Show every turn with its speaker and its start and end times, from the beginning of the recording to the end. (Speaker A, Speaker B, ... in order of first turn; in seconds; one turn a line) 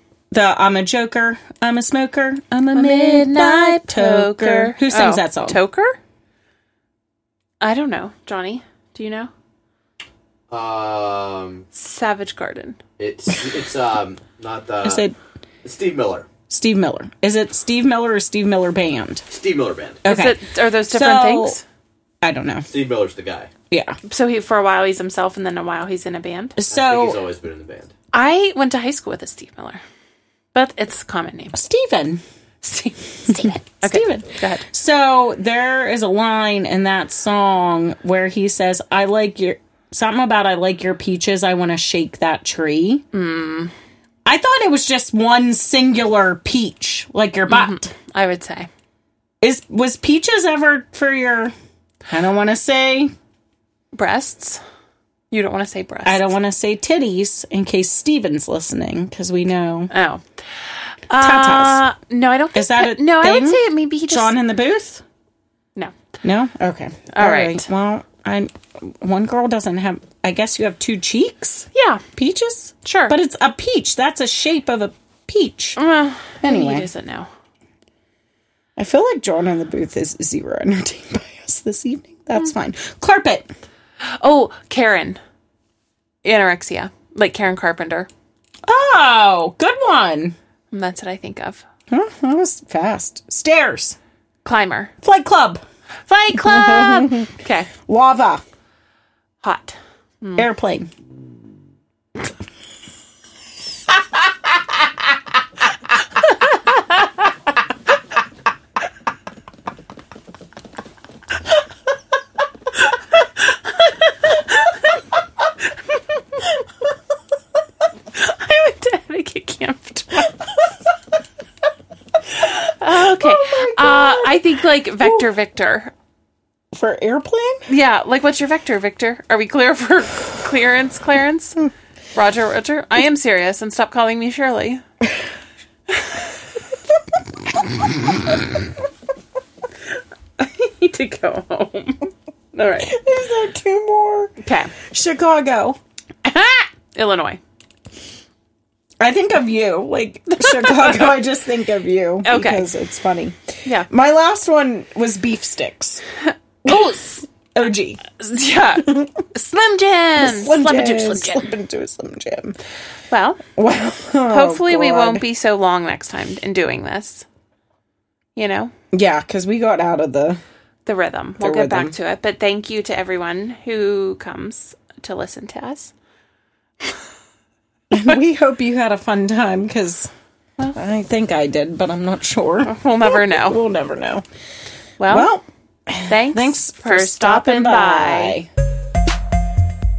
Speaker A: 0.3-5.6
Speaker B: 2.7-6.0
Speaker B: 7.6-9.3
Speaker C: 10.5-11.7
Speaker B: 11.7-12.8
Speaker C: 13.0-15.1
Speaker A: 14.8-15.2
Speaker C: 15.6-16.3
Speaker A: 16.5-19.2
Speaker C: 19.3-20.0
Speaker A: 20.0-21.6
Speaker B: 20.0-21.6
Speaker A: 22.2-22.7
Speaker C: 22.7-23.5
Speaker A: 23.7-24.0
Speaker B: 24.1-26.6
Speaker A: 26.6-27.2
Speaker C: 26.7-27.9
Speaker B: 28.1-29.8
Speaker B: 30.5-31.6
Speaker A: 31.5-32.2
Speaker B: 32.6-34.6
Speaker A: 33.8-43.0
Speaker B: 43.1-43.7
Speaker A: 44.2-47.9
Speaker B: 47.5-48.7
Speaker A: 49.4-51.5
Speaker A: 52.1-53.1
Speaker B: 53.9-54.6
Speaker B: 55.3-56.3
Speaker A: 56.0-59.9
Speaker B: 59.9-60.2
Speaker B: 61.1-64.3
Speaker A: 61.2-61.9
Speaker A: 62.5-65.0
Speaker A: 66.2-75.8
Speaker B: 67.1-67.7
Speaker B: 71.7-72.0
Speaker B: 72.8-73.1
Speaker B: 75.8-77.3
Speaker A: 76.4-76.9
Speaker A: 78.8-83.5
Speaker B: 84.2-85.2
Speaker B: 86.2-88.1
Speaker A: 88.7-90.3
Speaker B: 90.7-91.6
Speaker A: 91.9-94.0
Speaker B: 94.4-94.9
Speaker A: 95.0-95.6
Speaker B: 96.1-97.7
Speaker A: 96.3-97.3
Speaker A: 97.9-98.4
Speaker B: 99.4-100.5
Speaker A: 100.4-100.9
Speaker B: 118.1-120.4
Speaker B: 122.4-125.9
Speaker A: 122.9-125.2
Speaker A: 126.7-127.7
Speaker B: 127.7-134.8
Speaker A: 137.6-138.4
Speaker B: 140.4-142.9
Speaker A: 142.8-145.8
Speaker B: 144.4-144.7
Speaker B: 146.2-147.4
Speaker A: 149.0-156.0
Speaker B: 150.5-150.9
Speaker B: 152.2-152.7
Speaker A: 156.6-158.0
Speaker B: 156.7-157.2
Speaker B: 158.2-161.5
Speaker A: 160.2-162.6
Speaker B: 163.1-163.4
Speaker A: 163.6-165.2
Speaker B: 164.3-167.2
Speaker B: 168.3-168.7
Speaker A: 168.9-170.4
Speaker B: 170.8-175.9
Speaker A: 171.4-171.9
Speaker A: 177.9-180.1
Speaker A: 180.7-184.2
Speaker B: 182.6-183.6
Speaker B: 185.0-185.3
Speaker A: 185.1-188.5
Speaker B: 186.1-188.4